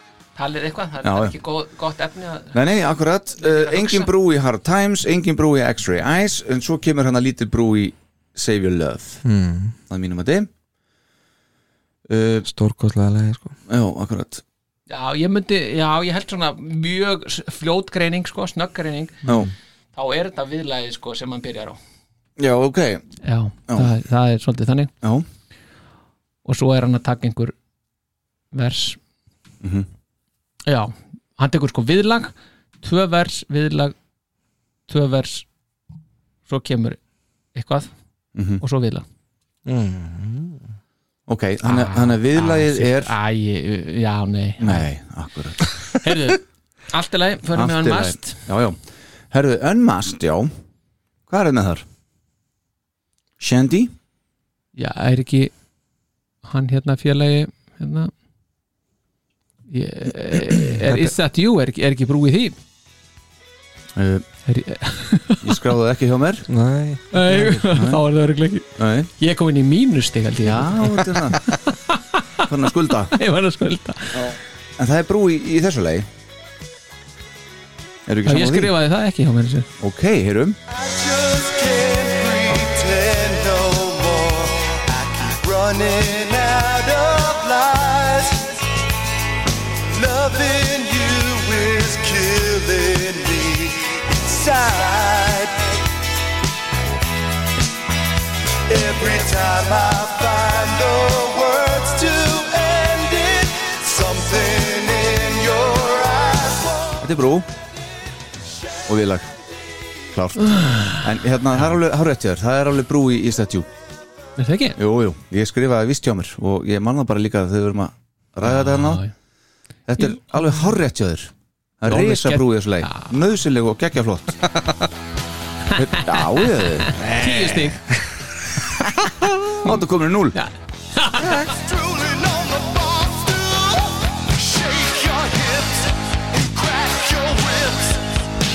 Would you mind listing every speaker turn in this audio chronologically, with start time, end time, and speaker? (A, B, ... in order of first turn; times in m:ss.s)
0:00.4-0:02.6 A
0:01.0-0:01.4 B
0:02.5-0:09.2 B
0:03.4-0:04.1 A
0:09.2-0:09.8 C
0:09.9-0:10.5 B
0:12.1-0:12.5 B
0:12.5-0:13.5 C
0:13.7-0:14.4 B
0:14.9-0:19.2 A
0:19.3-0:19.5 B
0:20.0-0:21.8 A
0:22.4-0:23.0 B
0:23.2-0:24.9 A
0:26.4-0:27.6 A
0:28.5-0:29.0 A
0:29.6-0:29.9 B
0:30.7-0:34.0 A
0:34.9-0:35.5 A
0:36.5-0:37.0 A
0:37.6-0:37.9 A
0:38.4-0:38.6 B
0:38.6-0:39.0 A
0:39.7-0:40.6 C
0:41.3-0:43.1 B
0:41.6-0:44.8 A
0:44.6-0:45.6 B
0:46.0-0:48.4 A
0:47.5-0:48.8 B
0:49.3-0:50.5 B
0:51.3-0:51.8 B
0:53.4-0:53.9 B
0:54.8-0:55.5 A
0:56.4-0:58.1 A
0:59.7-1:02.6 A
1:00.9-1:01.2 C
1:04.0-1:04.2 B
1:04.5-1:05.6 A
1:05.4-1:06.5 B
1:06.5-1:07.6 C
1:07.1-1:12.4 A
1:07.7-1:08.0 B
1:08.8-1:09.1 B
1:10.4-1:11.5 B
1:12.4-1:13.2 B
1:13.1-1:14.4 A
1:14.1-1:16.1 B
1:18.1-1:18.7 B
1:18.2-1:19.7 A
1:19.8-1:20.6 B
1:20.7-1:28.6 D
1:29.9-1:35.8 D
1:38.7-1:47.0 D
1:47.0-1:47.5 B
1:48.8-1:49.3 B
1:50.1-1:53.7 B
1:50.4-1:51.1 A
1:54.4-1:54.8 A
1:54.8-1:59.0 B
1:58.4-1:59.1 A
1:59.9-2:04.4 B
2:01.8-2:03.2 A
2:05.7-2:07.0 B
2:05.9-2:07.8 A
2:07.0-2:08.1 C
2:09.6-2:10.4 B
2:10.4-2:11.5 A
2:11.2-2:11.5 C
2:11.5-2:18.1 D